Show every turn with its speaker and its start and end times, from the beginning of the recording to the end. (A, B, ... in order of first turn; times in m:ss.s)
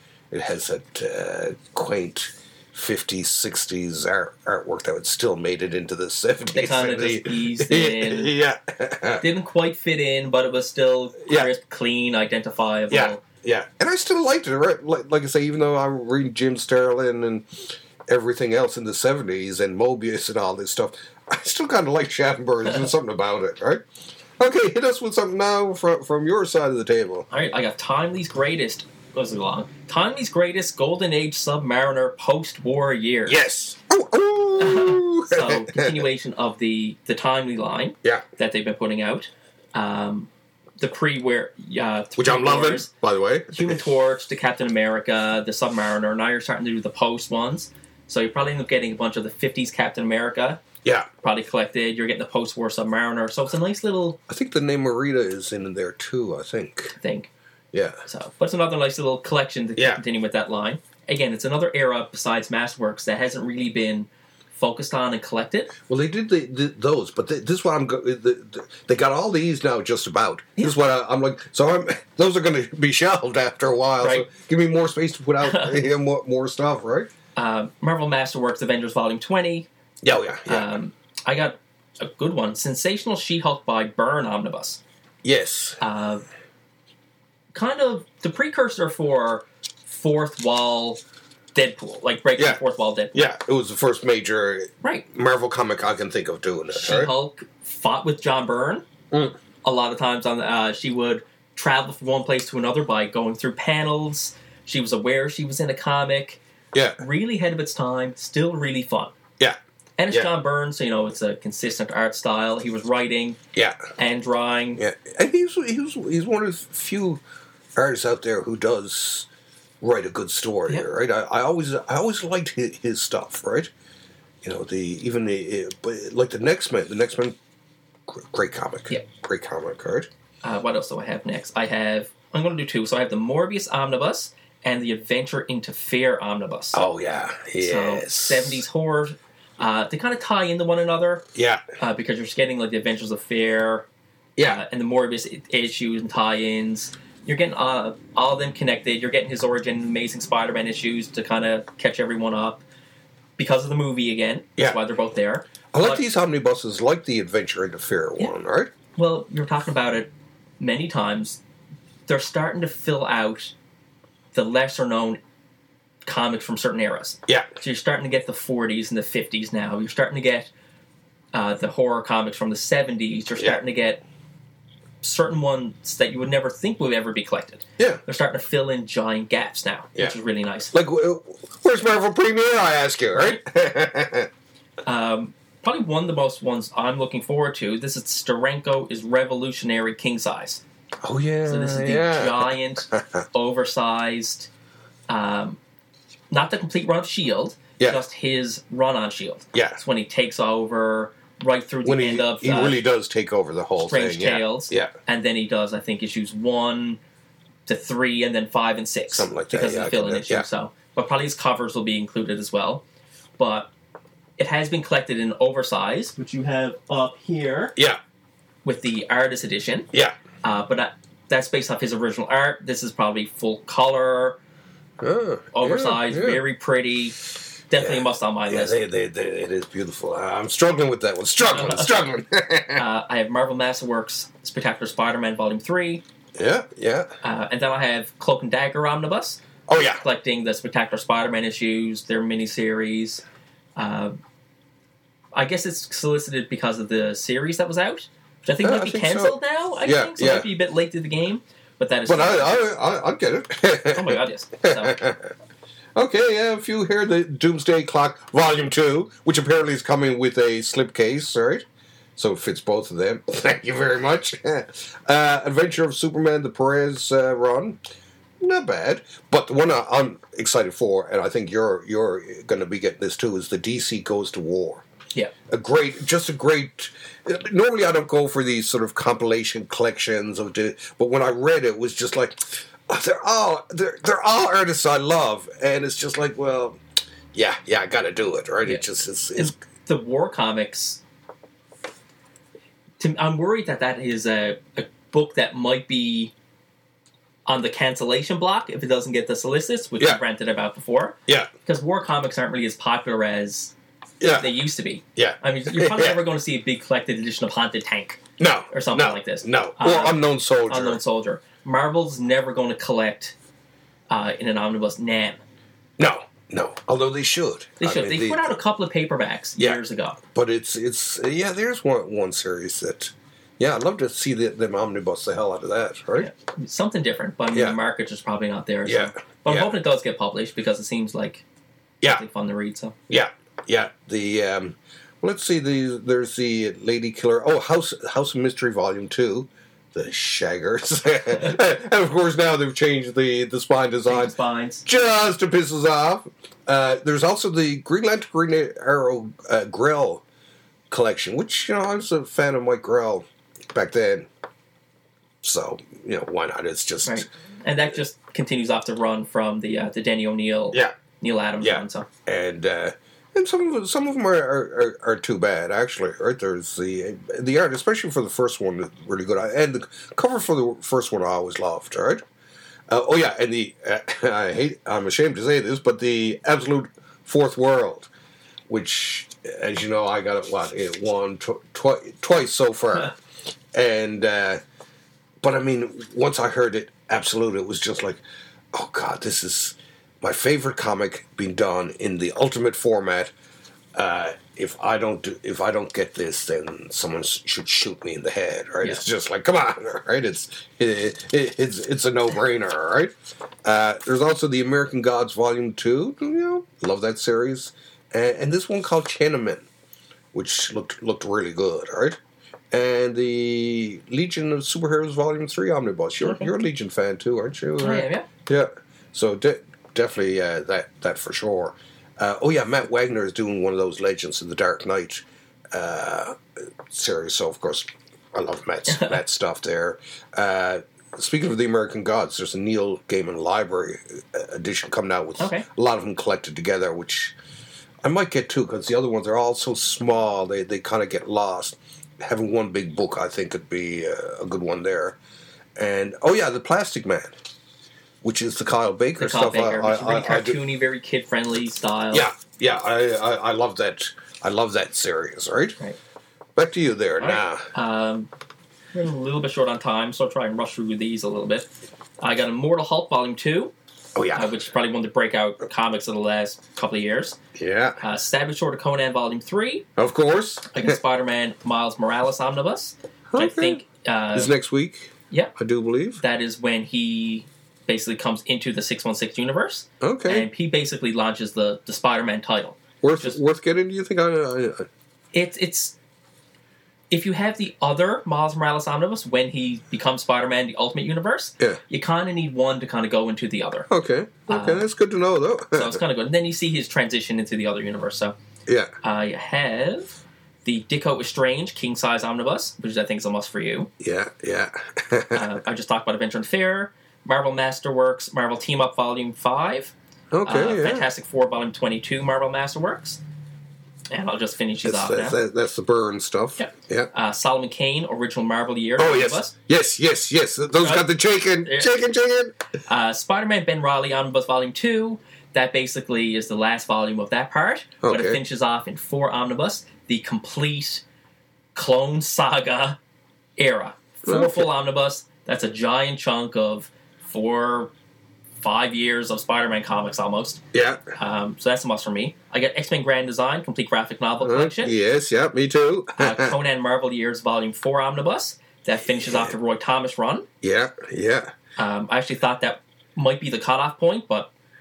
0:00.3-0:09.2 A
0:06.5-0:08.3 B
0:09.2-0:13.2 B
0:11.2-0:11.5 A
0:12.9-0:23.8 A
0:24.4-0:27.3 A
0:27.3-0:33.4 B
0:33.3-0:36.1 A
0:34.6-0:42.9 B
0:42.2-0:43.8 A
0:43.5-0:50.6 B
0:51.2-0:54.2 B
0:54.3-0:57.0 A
0:57.0-0:57.3 B
0:57.7-0:58.0 A
0:58.1-1:05.7 B
1:05.9-1:17.1 A
1:14.0-1:14.3 B
1:15.4-1:15.9 B
1:17.4-1:19.7 B
1:20.0-1:20.7 A
1:20.5-1:24.8 B
1:25.2-1:25.8 A
1:25.8-1:26.3 B
1:27.5-1:31.0 B
1:31.5-1:33.3 B
1:33.1-1:37.1 A
1:36.7-1:38.8 B
1:39.1-1:39.4 A
1:39.6-1:46.4 B
1:46.7-1:47.0 A
1:47.0-1:49.1 B
1:50.0-1:53.4 B
1:53.5-1:53.8 A
1:54.0-1:54.8 B
1:54.8-1:57.2 A
1:57.8-1:59.3 A
1:59.8-2:03.7 A
2:04.4-2:07.4 A
2:08.1-2:10.1 A
2:10.4-2:16.8 B
2:16.7-2:18.6 A
2:17.6-2:21.2 B
2:21.4-2:21.6 A
2:21.8-2:23.9 B
2:24.4-2:24.6 A
2:24.4-2:32.6 B
2:33.4-2:36.0 B
2:35.7-2:38.7 A
2:39.0-2:40.1 B
2:40.6-2:41.4 B
2:42.1-2:43.5 B
2:44.3-2:45.2 B
2:46.1-2:50.5 B
2:51.3-2:54.0 B
2:55.0-3:00.7 B
3:00.7-3:04.3 A
3:03.1-3:03.4 B
3:04.8-3:10.6 B
3:11.0-3:13.2 A
3:11.5-3:14.5 B
3:15.1-3:15.6 B
3:16.3-3:22.8 B
3:19.5-3:19.8 A
3:21.8-3:24.9 A
3:23.8-3:27.0 B
3:27.7-3:32.8 B
3:29.1-3:30.5 A
3:33.4-3:33.7 B
3:34.4-3:37.8 B
3:38.6-3:39.9 B
3:40.4-3:44.4 B
3:45.0-3:46.4 A
3:45.5-3:47.2 B
3:47.7-3:48.8 B
3:47.8-3:52.8 A
3:51.4-3:52.1 B
3:52.8-3:56.0 B
3:56.4-3:57.1 A
3:57.2-3:59.4 B
3:59.7-4:00.0 A
4:00.0-4:03.2 B
4:03.8-4:04.1 B
4:05.4-4:12.6 B
4:08.6-4:10.5 A
4:12.1-4:15.3 A
4:13.9-4:15.0 B
4:16.0-4:21.6 A
4:22.2-4:27.8 A
4:28.4-4:34.8 A
4:35.5-4:46.8 A
4:47.3-4:49.5 A
4:49.4-4:51.0 B
4:53.0-4:56.3 B
4:57.5-5:03.7 B
5:04.2-5:04.5 A
5:04.3-5:13.4 B
5:05.2-5:06.2 A
5:08.4-5:11.0 A
5:14.1-5:15.4 B
5:16.0-5:18.6 A
5:17.8-5:20.2 B
5:19.6-5:26.3 A
5:26.2-5:31.4 B
5:28.8-5:29.7 A
5:32.0-5:33.0 B
5:33.1-5:50.2 A
5:44.1-5:44.8 B
5:50.9-5:54.3 A
5:55.4-5:57.3 A
5:57.0-6:02.1 B
6:01.6-6:12.2 A
6:12.9-6:18.1 A
6:18.7-6:23.2 A
6:23.7-6:24.6 A
6:25.4-6:28.2 A
6:28.7-6:33.3 A
6:34.0-6:43.1 A
6:43.6-6:49.7 A
6:50.3-6:52.2 A
6:52.7-7:06.4 A
6:56.2-6:56.5 B
6:57.8-6:58.3 B
7:06.9-7:17.4 A
7:08.9-7:09.2 B
7:15.4-7:15.7 B
7:18.0-7:25.2 A
7:25.8-7:27.3 A
7:28.2-7:30.6 A
7:29.2-7:32.3 B
7:32.1-7:35.8 A
7:36.6-7:37.7 A
7:37.2-7:38.3 B
7:38.9-7:41.7 B
7:42.2-7:43.7 B
7:44.2-7:44.5 A
7:44.3-7:47.4 B
7:47.6-7:48.0 A
7:48.0-7:49.9 B
7:50.0-7:51.0 A
7:50.7-7:54.5 B
7:53.3-7:53.8 A
7:54.3-7:56.2 A
7:56.2-8:03.4 B
8:00.0-8:00.5 A
8:03.0-8:04.9 A
8:05.3-8:06.0 B
8:07.1-8:13.9 B
8:13.9-8:16.0 A
8:14.5-8:14.9 B
8:15.7-8:18.4 B
8:18.7-8:18.9 A
8:19.0-8:23.9 B
8:24.0-8:25.5 A
8:25.3-8:29.9 B
8:30.3-8:31.1 A
8:30.4-8:33.2 B
8:34.1-8:35.4 B
8:34.8-8:37.1 A
8:36.6-8:39.5 B
8:39.0-8:42.5 A
8:40.8-8:41.1 B
8:41.6-8:41.9 B
8:42.9-8:51.0 B
8:48.0-8:48.4 A
8:51.8-8:53.0 B
8:53.6-8:57.9 B
8:54.2-8:54.7 A
8:58.6-9:00.6 B
9:00.7-9:01.0 A
9:01.2-9:04.9 B
9:04.4-9:06.6 A
9:06.2-9:10.5 B
9:09.2-9:09.5 A
9:10.6-9:11.5 A
9:11.8-9:14.5 B